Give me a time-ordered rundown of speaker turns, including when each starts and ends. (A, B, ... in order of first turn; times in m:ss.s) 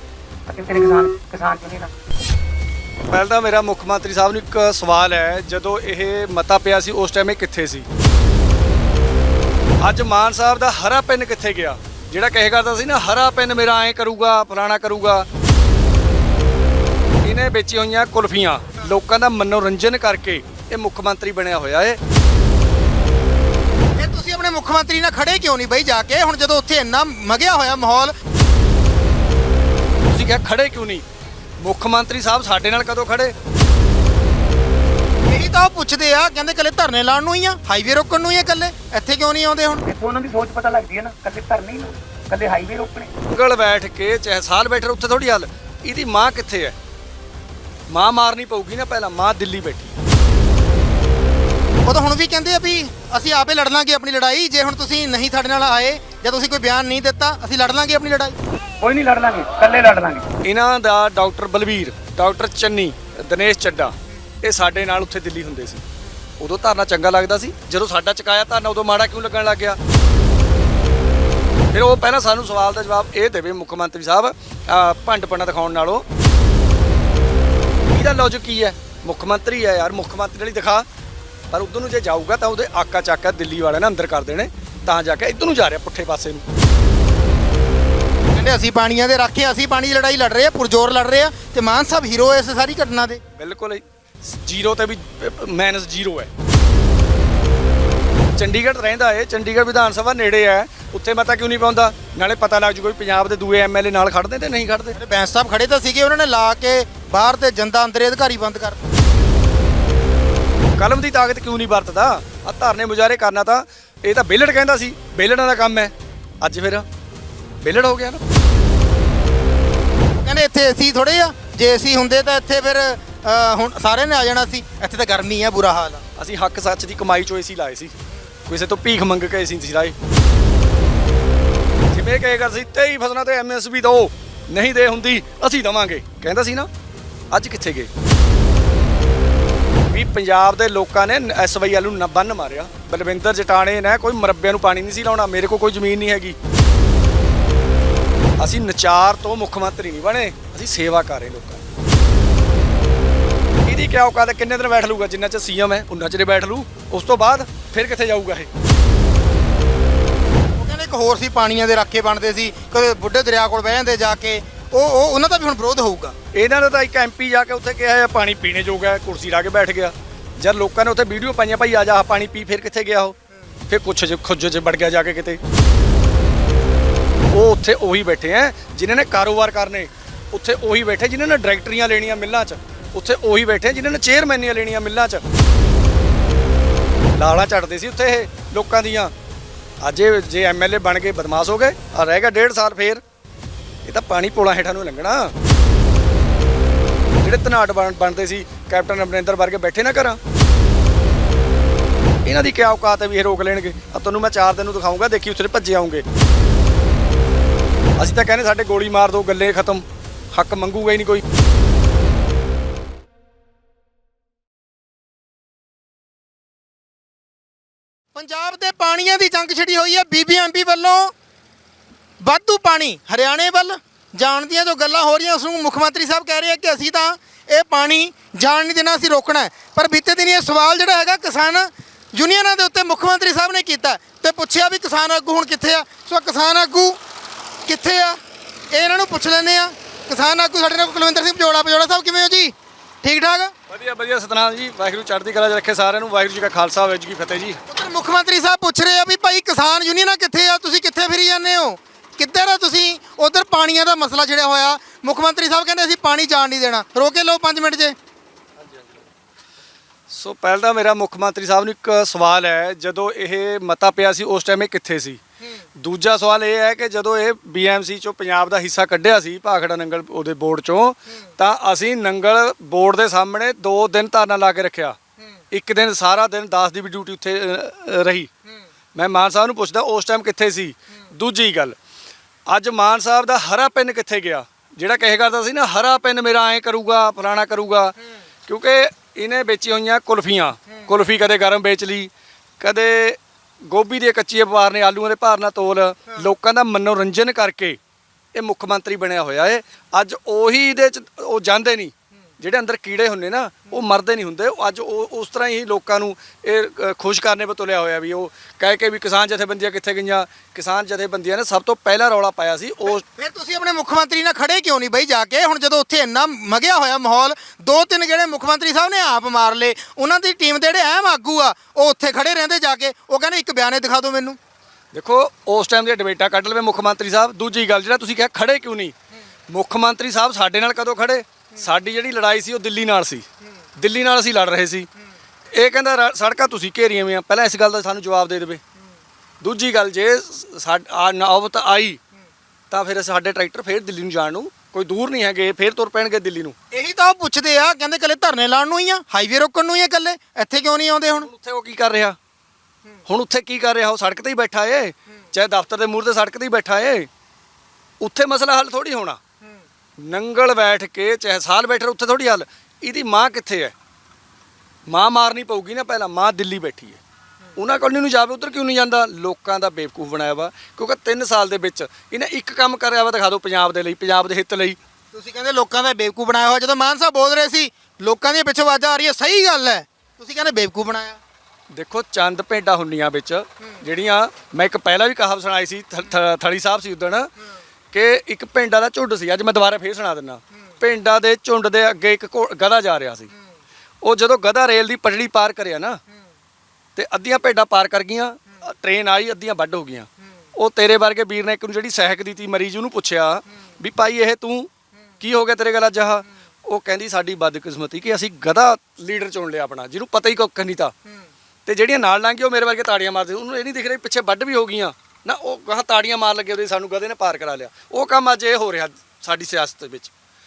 0:00.5-0:01.9 A
0:03.1-0:07.9 B
0:09.8-0:15.3 B
0:17.2-0:22.0 B
0:24.0-0:28.1 C
0:30.1-0:31.0 B
0:31.6-0:33.4 B
0:35.2-0:39.8 C
0:39.9-0:43.1 A
0:43.3-0:46.8 B
0:47.9-0:50.0 B
0:51.9-0:58.4 C
0:58.8-1:00.3 A
1:00.4-1:05.8 B
1:06.4-1:09.8 B
1:11.7-1:16.1 B
1:17.9-1:20.9 B
1:21.5-1:26.4 B
1:28.3-1:33.2 C
1:33.4-1:36.3 B
1:38.4-1:45.0 B
1:45.0-1:48.8 C
1:50.8-1:56.9 B
1:57.6-1:58.2 B
2:00.2-2:06.0 C
2:06.2-2:08.0 B
2:08.5-2:10.0 B
2:11.9-2:16.7 B
2:17.3-2:17.9 B
2:19.9-2:26.4 B
2:28.4-2:31.6 B
2:33.6-2:38.5 B
2:40.6-2:46.2 C
2:46.3-2:53.2 B
2:53.7-2:55.4 B
2:57.3-3:05.2 B
3:07.2-3:09.1 B
3:09.8-3:13.0 B
3:13.8-3:15.4 B
3:17.2-3:20.2 B
3:22.2-3:26.0 B
3:28.0-3:31.2 B
3:38.2-3:41.1 C
3:42.2-3:57.0 C
3:57.7-3:58.2 C
3:58.7-4:03.5 C
4:03.7-4:07.6 B
4:07.7-4:18.0 C
4:18.6-4:18.9 B
4:20.1-4:25.2 B
4:25.8-4:35.0 B
4:35.5-4:38.3 B
4:39.0-4:41.8 B
4:42.5-4:48.0 B
4:48.5-4:57.8 B
4:58.3-5:13.0 B
5:13.0-5:24.4 C
5:24.9-5:29.0 B
5:29.5-5:33.3 B
5:33.8-5:34.9 B
5:35.5-5:38.6 B
5:39.4-5:42.0 B
5:42.7-5:46.6 B
5:46.7-5:51.3 C
5:51.2-5:52.2 B
5:53.1-5:57.1 B
5:58.0-5:59.2 B
6:00.0-6:03.7 B
6:04.9-6:07.0 B
6:07.6-6:14.8 B
6:15.1-6:21.2 C
6:21.7-6:27.3 B
6:27.9-6:33.3 B
6:34.0-6:36.0 B
6:37.0-6:50.9 B
6:51.7-7:00.1 B